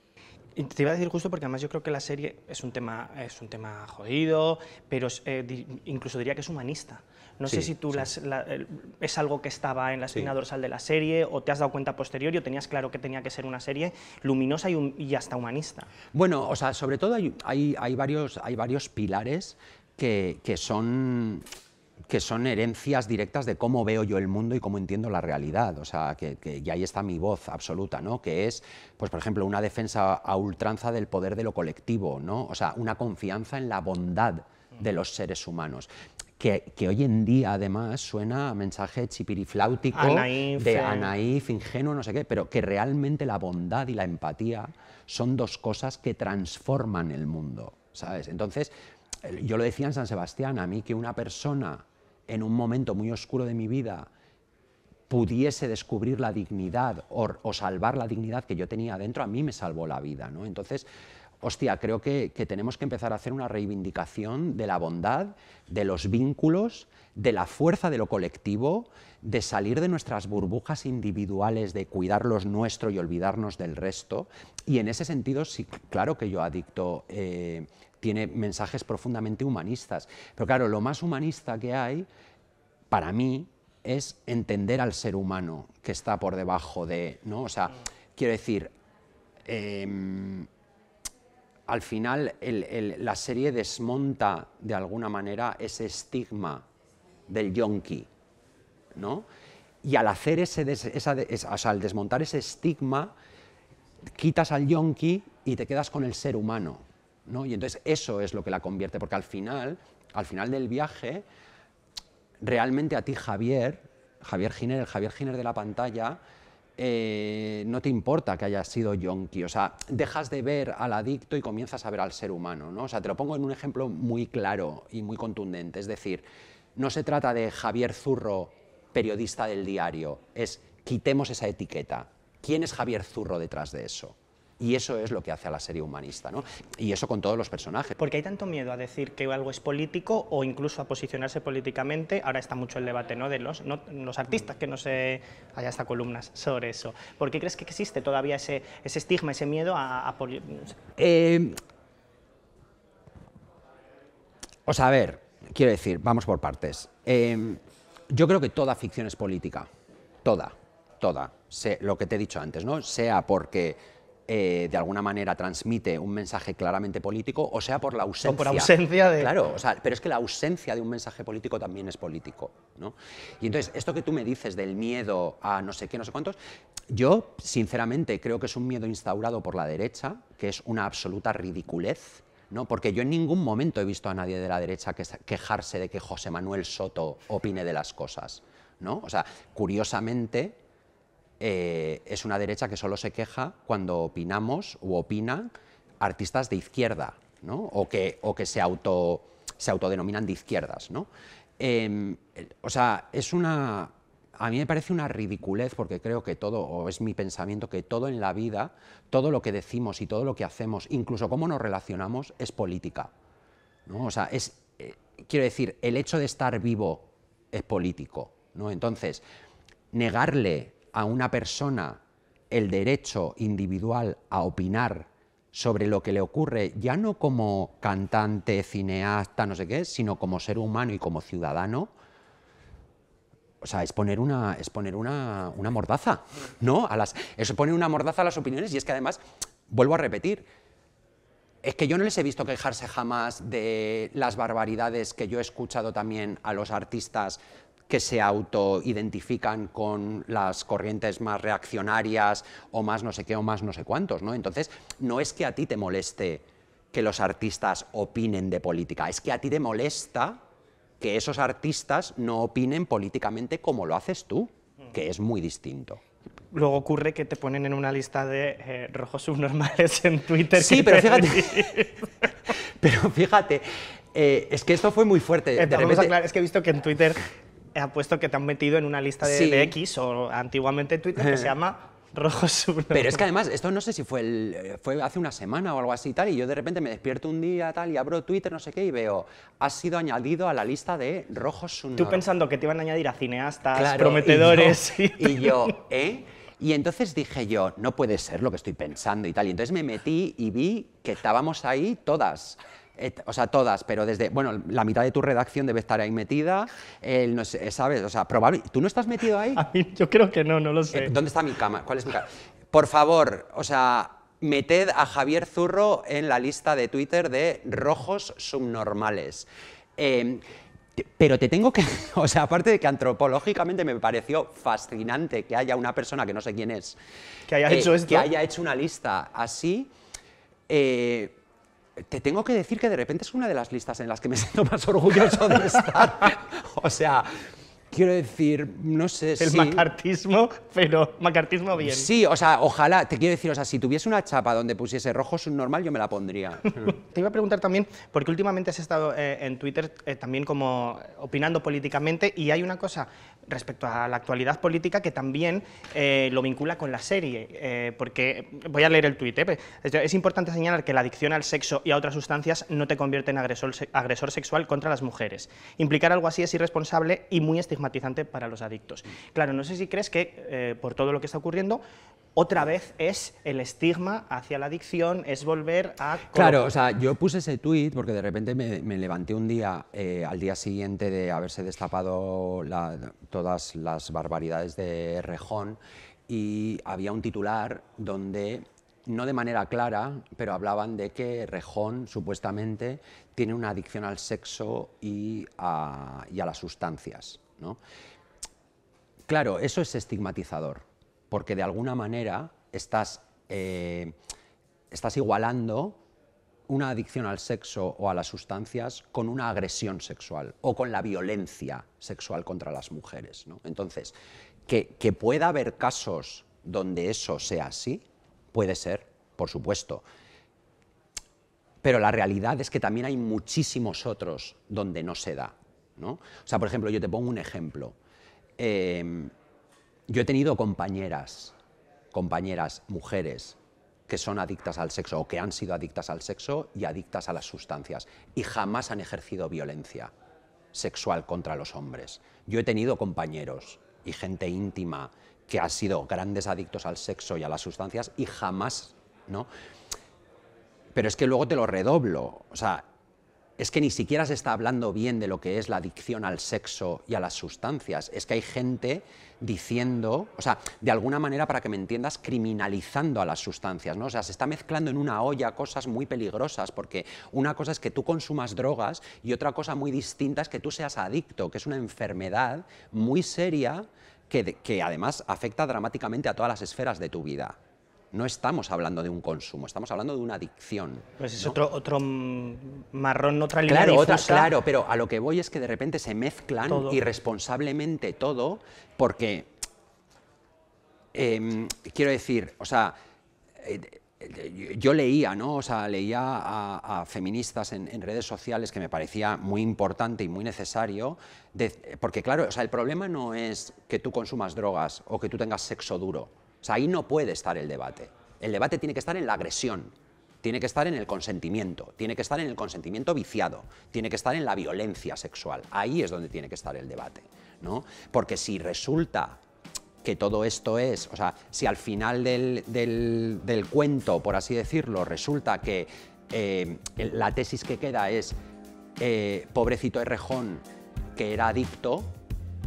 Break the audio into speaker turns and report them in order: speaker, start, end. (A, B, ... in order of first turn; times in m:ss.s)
0:00.6-0:15.9 A
0:07.5-0:08.1 B
0:16.1-0:21.4 B
0:22.1-0:54.1 B
0:39.9-0:41.1 A
0:55.1-1:00.9 B
1:01.4-1:22.1 B
1:22.9-1:28.7 B
1:29.4-1:30.5 B
1:31.7-1:36.6 B
1:37.3-1:38.1 B
1:39.0-1:39.3 B
1:39.8-1:43.1 B
1:44.1-1:51.3 B
1:52.4-1:56.2 B
1:56.8-2:18.0 B
2:18.0-2:30.8 A
2:31.0-2:31.6 B
2:34.7-2:39.7 B
2:40.2-2:56.4 B
2:48.2-2:49.3 A
2:56.9-3:10.6 B
3:11.4-3:21.1 B
3:21.6-3:33.1 B
3:33.9-3:39.2 B
3:39.9-3:51.9 B
3:53.6-4:00.5 B
4:01.6-4:20.4 B
4:21.0-4:26.0 B
4:26.5-4:32.3 A
4:30.5-4:31.8 B
4:32.5-4:36.2 B
4:35.6-4:43.2 A
4:39.2-4:39.8 B
4:41.2-4:41.6 B
4:42.9-4:52.2 B
4:52.0-4:55.7 A
4:53.7-5:09.6 B
5:09.6-5:11.2 A
5:10.9-5:20.4 B
5:21.0-5:27.0 B
5:27.5-5:28.3 A
5:27.6-5:29.9 B
5:30.7-5:31.4 B
5:32.1-5:39.9 B
5:39.4-5:42.1 A
5:41.8-5:47.0 B
5:47.0-6:11.8 A
6:12.4-6:16.7 A
6:16.3-6:37.8 B
6:39.3-6:44.2 B
6:44.9-6:46.0 B
6:46.7-6:54.2 B
6:54.7-7:00.0 B
7:01.8-7:08.0 B
7:08.6-7:09.3 B
7:10.1-7:11.6 B
7:12.1-7:20.1 B
7:20.7-7:29.5 B
7:31.0-7:32.9 B
7:33.6-7:57.6 B
7:58.1-8:01.6 B
8:01.2-8:04.5 A
8:03.7-8:09.5 B
8:06.7-8:07.0 A
8:11.1-8:13.0 B
8:13.6-8:39.4 B
8:40.0-8:48.4 B
8:49.0-8:50.6 B
8:51.2-8:52.1 B